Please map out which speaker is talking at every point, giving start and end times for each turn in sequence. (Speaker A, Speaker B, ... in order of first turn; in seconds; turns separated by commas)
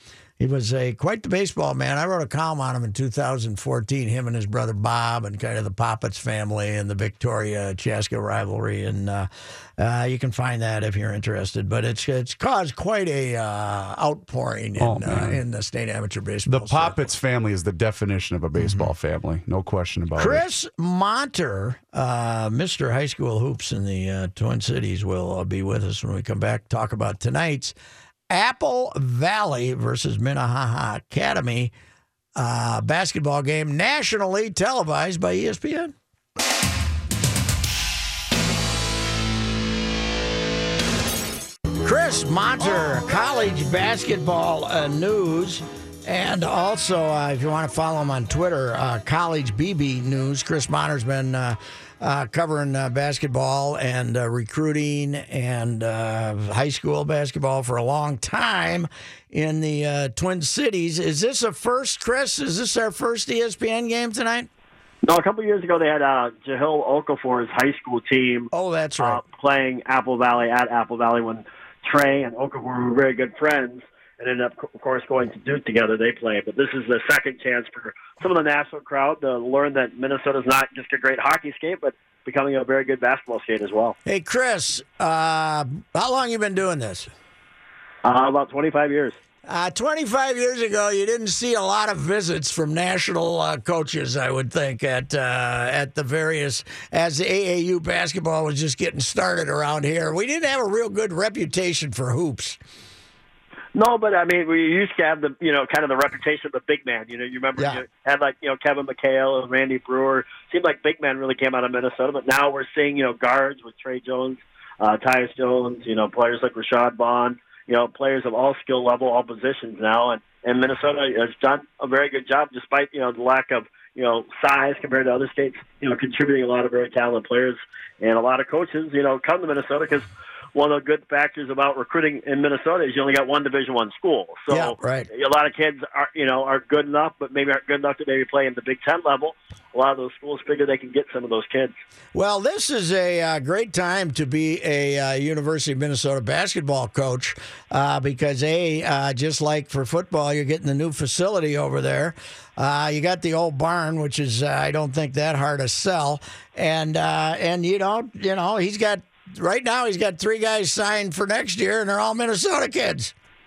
Speaker A: 0.4-17.1, Speaker B: 14.8-15.4, Speaker B: 16.5-20.4, Speaker A: 20.2-27.8, Speaker A: 28.3-31.7, Speaker A: 32.4-35.9, Speaker A: 41.8-64.5, Speaker C: 65.0-84.0, Speaker A: 68.5-69.2, Speaker A: 84.1-87.1, Speaker C: 88.0-89.2, Speaker A: 89.5-102.6, Speaker C: 103.8-141.8, Speaker A: 107.6-107.8, Speaker A: 134.5-135.1, Speaker A: 142.2-163.1